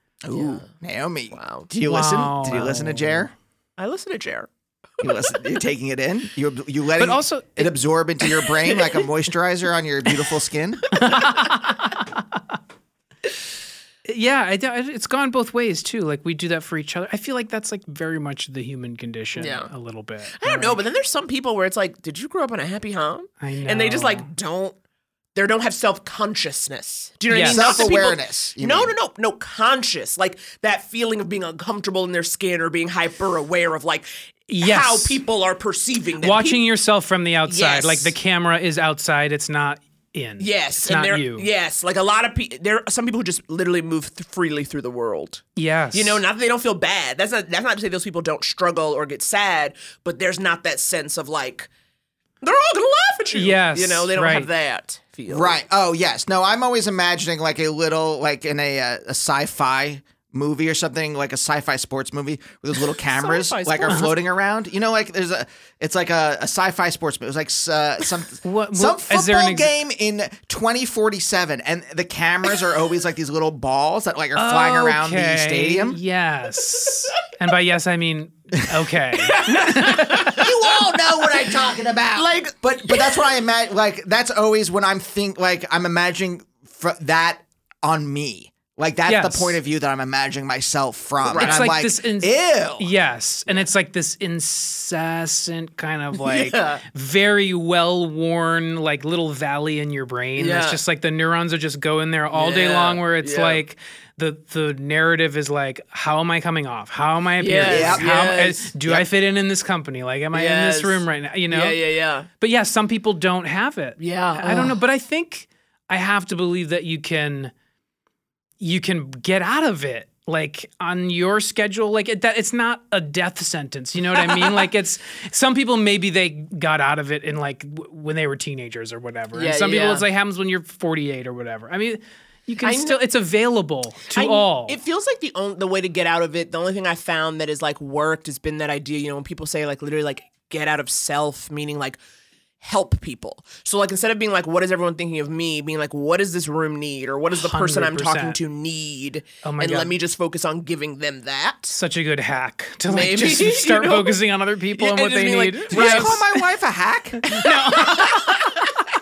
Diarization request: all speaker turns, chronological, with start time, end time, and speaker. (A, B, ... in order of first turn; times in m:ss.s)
0:00.2-0:03.3 A
0:00.3-0:00.7 B
0:01.3-0:01.7 B
0:01.8-0:03.3 C
0:03.8-0:04.5 B
0:05.0-0:10.9 A
0:07.0-0:07.7 C
0:10.9-0:12.4 C
0:14.0-0:20.8 C
0:19.4-0:19.7 B
0:20.3-0:24.8 B
0:23.4-0:24.3 C
0:25.3-0:34.1 B
0:27.3-0:27.8 C
0:27.5-0:28.9 A
0:34.5-0:35.2 C
0:34.6-0:36.6 B
0:36.2-0:41.5 C
0:37.5-0:38.1 B
0:40.4-0:51.7 B
0:45.6-0:46.2 C
0:52.4-0:55.6 B
0:53.3-0:54.5 C
0:55.3-1:16.0 A
1:03.0-1:04.1 B
1:08.4-1:09.7 C
1:14.4-1:20.3 C
1:19.3-1:21.4 B
1:20.2-1:32.9 A
1:22.1-1:23.2 B
1:29.1-1:29.6 C
1:31.2-1:31.6 B
1:31.4-1:51.8 C
1:36.2-1:36.8 B
1:40.4-1:40.8 B
1:42.3-1:43.6 B
1:47.4-1:48.8 B
1:47.6-1:48.2 A
1:50.3-1:52.3 B
1:52.4-1:57.5 C
1:54.0-1:54.8 B
1:58.6-2:14.8 C
2:04.1-2:04.7 B
2:09.3-2:10.0 B
2:12.6-2:13.0 B
2:14.1-2:22.0 B
2:22.6-2:31.8 B
2:27.3-2:28.4 C
2:29.4-2:29.9 C
2:31.7-2:36.2 C
2:32.9-2:34.2 B
2:34.7-2:36.2 B
2:35.7-2:37.3 A
2:37.2-2:38.7 C
2:37.7-2:38.4 B